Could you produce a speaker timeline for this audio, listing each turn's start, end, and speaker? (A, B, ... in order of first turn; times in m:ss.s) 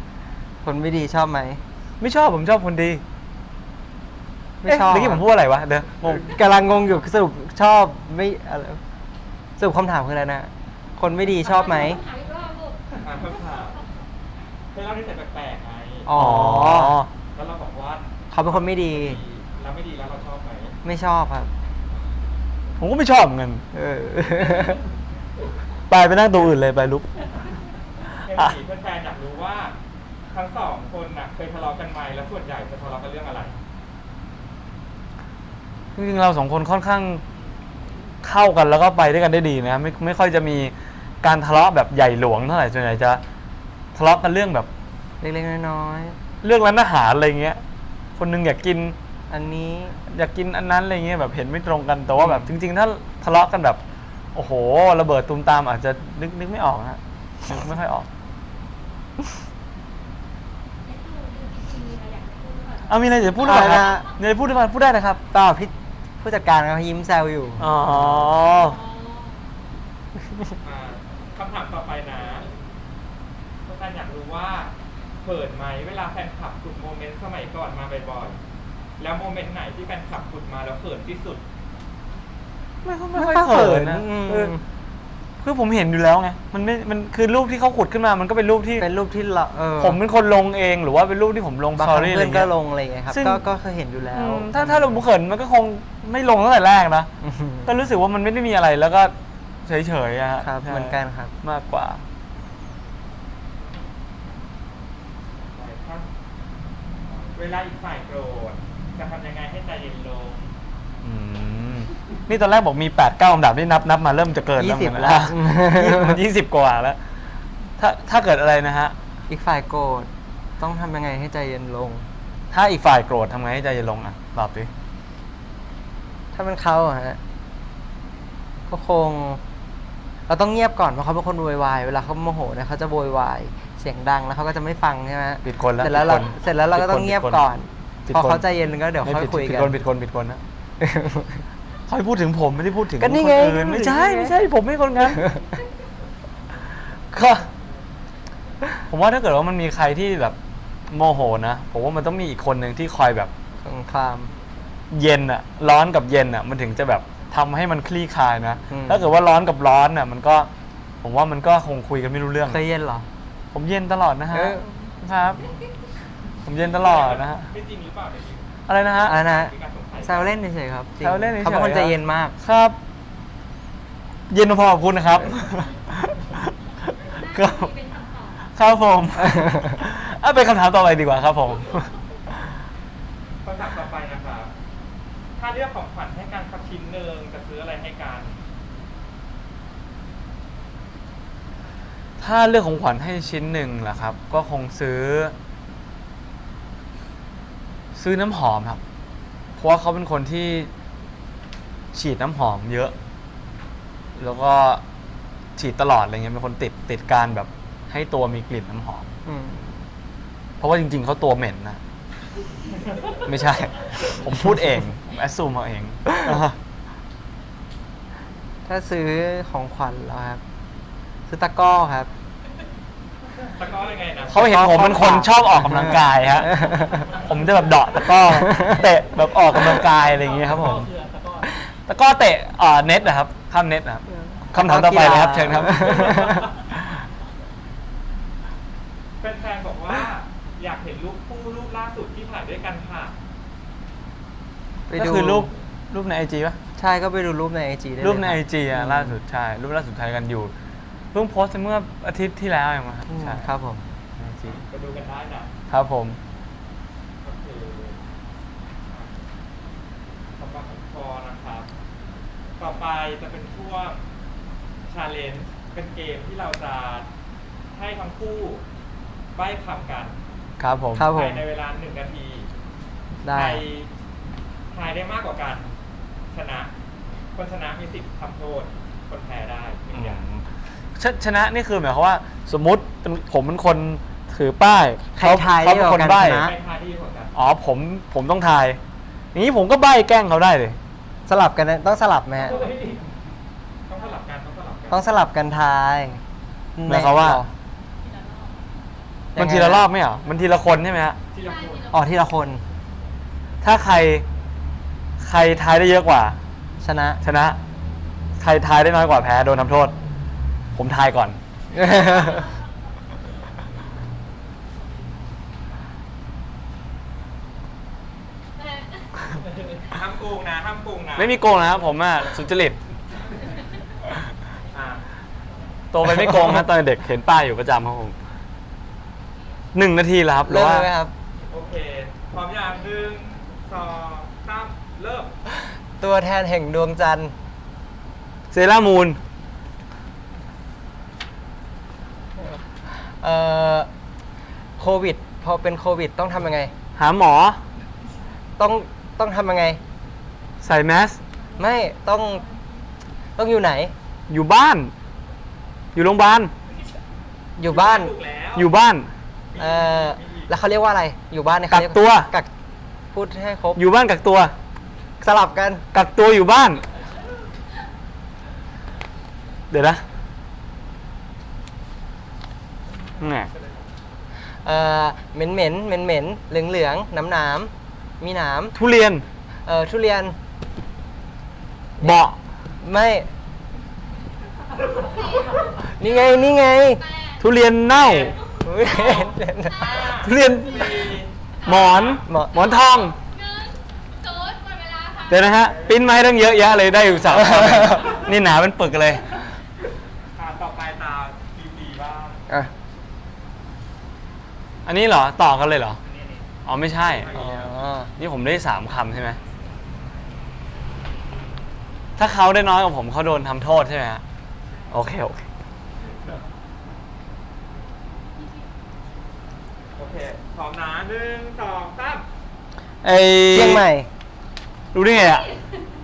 0:00.6-0:01.6 A
0:02.0-0:03.0 B
0:04.6-0:05.2 A
0:04.7-0:06.3 B
0:06.2-0:08.8 A
0:09.6-0:12.0 A
0:11.4-0:12.9 C
0:13.0-0:13.8 D
0:14.7-0:16.1 D
0:16.1-0:17.0 A
0:16.1-0:17.1 B
0:17.3-0:20.8 D
0:18.3-0:19.2 A
0:20.8-0:21.5 A
0:22.8-0:23.6 B
0:23.7-0:24.8 A
0:25.9-0:27.1 B
0:28.1-0:29.8 D
0:30.3-0:33.6 D
0:36.0-0:37.2 B
0:38.2-0:43.2 B
0:43.9-0:44.7 B
0:45.2-0:46.2 A
0:46.4-0:47.6 B
0:48.2-0:49.0 B
0:49.3-0:50.0 A
0:50.1-0:53.8 B
0:52.2-0:52.5 A
0:54.3-0:58.1 B
1:00.8-1:04.0 C
1:02.9-1:05.2 B
1:03.4-1:04.1 A
1:05.3-1:07.8 A
1:07.6-1:08.8 B
1:07.9-1:08.2 D
1:08.5-1:09.4 C
1:10.6-1:12.5 D
1:13.7-1:18.4 D
1:19.0-1:21.4 D
1:22.8-1:24.6 B
1:23.2-1:24.6 A
1:25.4-1:28.9 B
1:28.8-1:30.0 A
1:29.8-1:32.5 B
1:31.8-1:35.0 A
1:33.1-1:33.4 B
1:34.1-1:37.1 B
1:37.2-1:37.7 A
1:37.6-1:39.1 B
1:39.7-1:42.0 B
1:40.4-1:41.3 A
1:45.5-1:46.1 D
1:47.1-1:50.4 D
1:51.0-1:57.0 B
1:54.6-1:56.2 A
1:57.8-1:59.0 B
1:59.3-2:02.1 A
2:02.5-2:04.7 B
2:06.3-2:07.2 A
2:08.7-2:09.4 A
2:10.3-2:19.8 A
2:15.4-2:17.4 B
2:18.1-2:18.4 B
2:19.0-2:20.4 B
2:20.8-2:21.4 A
2:21.9-2:25.2 B
2:23.0-2:24.4 A
2:27.1-2:27.5 B
2:28.9-2:30.4 B
2:30.9-2:33.3 B
2:33.6-2:34.3 A
2:34.9-2:40.5 B
2:38.7-2:39.1 A
2:41.0-2:42.6 B
2:42.5-2:43.1 A
2:43.5-2:45.4 B
2:44.3-2:44.8 A
2:46.4-2:47.5 B
2:46.7-2:48.5 D
2:48.7-2:49.2 B
2:49.0-2:50.4 D
2:49.1-2:49.5 A
2:50.0-2:52.4 A
2:51.0-2:52.8 B
2:54.3-2:57.7 B
2:57.1-2:58.4 C
2:58.5-3:02.6 B
2:59.3-2:59.7 A
3:03.4-3:04.5 D
3:05.4-3:08.4 D
3:12.2-3:15.4 B
3:18.0-3:18.8 B
3:19.6-3:20.7 B
3:21.9-3:22.9 B
3:24.2-3:24.8 B
3:25.6-3:29.1 B
3:29.2-3:29.9 A
3:30.6-3:31.8 B
3:33.2-3:36.6 B
3:38.7-3:40.4 A
3:41.3-3:42.1 A
3:43.5-3:44.4 D
3:44.3-3:50.9 B
3:44.3-3:47.1 A
3:48.5-3:48.8 A
3:49.9-3:51.6 E
3:51.9-3:56.4 B
3:54.2-3:56.5 A
3:55.9-3:56.7 E
3:59.2-4:03.2 D
4:04.9-4:05.5 A
4:04.9-4:06.6 B
4:06.8-4:09.2 A
4:08.0-4:10.5 B
4:11.1-4:13.5 B
4:13.1-4:13.8 A
4:14.2-4:14.6 B
4:14.4-4:15.5 D
4:15.7-4:16.2 B
4:17.2-4:18.0 D
4:18.9-4:19.2 D
4:20.4-4:21.7 D
4:22.6-4:24.0 D
4:24.9-4:27.1 D
4:27.7-4:28.6 D
4:29.4-4:30.2 D
4:30.6-4:31.1 B
4:31.0-4:31.4 A
4:31.0-4:32.5 D
4:33.2-4:33.6 A
4:33.3-4:33.9 D
4:34.7-4:35.7 D
4:36.3-4:36.7 D
4:37.3-4:40.2 D
4:40.0-4:40.4 B
4:41.0-4:46.5 B
4:45.2-4:46.5 A
4:46.2-4:47.3 D
4:47.3-4:48.8 B
4:49.3-4:50.8 B
4:51.2-4:52.7 A
4:52.5-4:53.1 E
4:53.9-4:55.0 D
4:54.9-4:56.2 A
4:56.8-4:57.5 A
4:56.9-4:57.4 B
4:58.0-4:58.6 C
4:59.4-4:59.9 A
4:59.4-5:01.2 B
5:01.3-5:01.9 D
5:01.4-5:02.1 C
5:01.9-5:02.6 A
5:03.6-5:04.2 B
5:05.2-5:06.4 B
5:06.8-5:07.2 A
5:07.2-5:07.6 B
5:08.4-5:10.0 B
5:10.7-5:11.4 B
5:11.7-5:12.5 A
5:12.0-5:12.4 C
5:18.6-5:19.3 C
5:19.8-5:21.4 D
5:21.2-5:22.8 B
5:24.7-5:25.0 D
5:25.9-5:28.2 B
5:26.1-5:26.6 A
5:29.7-5:30.9 B
5:30.4-5:31.1 A
5:31.5-5:35.4 D
5:36.0-5:37.4 A
5:38.5-5:39.2 B
5:42.9-5:43.9 A
5:44.8-5:46.7 A
5:47.0-5:47.6 B
5:48.6-5:49.8 A
5:50.6-5:51.2 B
5:51.4-5:52.8 C
5:51.6-5:52.4 A
5:53.4-5:53.9 A
5:54.3-5:54.9 B
5:56.0-5:56.5 B
5:57.6-5:58.1 A
5:57.6-5:58.7 D
5:58.6-5:59.1 B
5:59.5-6:00.5 D
5:59.6-6:02.5 A
6:01.7-6:02.3 B
6:03.1-6:03.8 A
6:03.8-6:04.5 B
6:05.2-6:05.8 A
6:05.9-6:06.8 B
6:09.7-6:10.0 B
6:13.2-6:13.5 B
6:14.6-6:18.8 A
6:18.8-6:19.2 B
6:19.7-6:20.4 A
6:22.0-6:22.4 B
6:22.8-6:23.3 A
6:25.0-6:27.5 C
6:26.0-6:27.0 A
6:27.4-6:28.3 B
6:28.0-6:28.4 D
6:28.6-6:30.0 A
6:28.8-6:30.2 C
6:28.9-6:29.2 D
6:29.7-6:32.2 D
6:30.2-6:31.1 B
6:31.6-6:33.2 B
6:32.2-6:32.5 A
6:32.5-6:35.5 C
6:35.3-6:39.5 B
6:35.7-6:36.1 D
6:37.3-6:38.1 A
6:40.4-6:42.5 D
6:44.8-6:46.0 B
6:46.1-6:46.4 E
6:46.6-6:47.6 B
6:47.0-6:47.7 D
6:47.3-6:48.1 A
6:48.2-6:49.4 B
6:52.2-6:54.2 B
6:54.9-6:55.4 B
6:58.4-6:58.7 C
7:00.0-7:02.2 D
7:03.0-7:03.9 B
7:03.5-7:04.1 A
7:04.9-7:05.5 B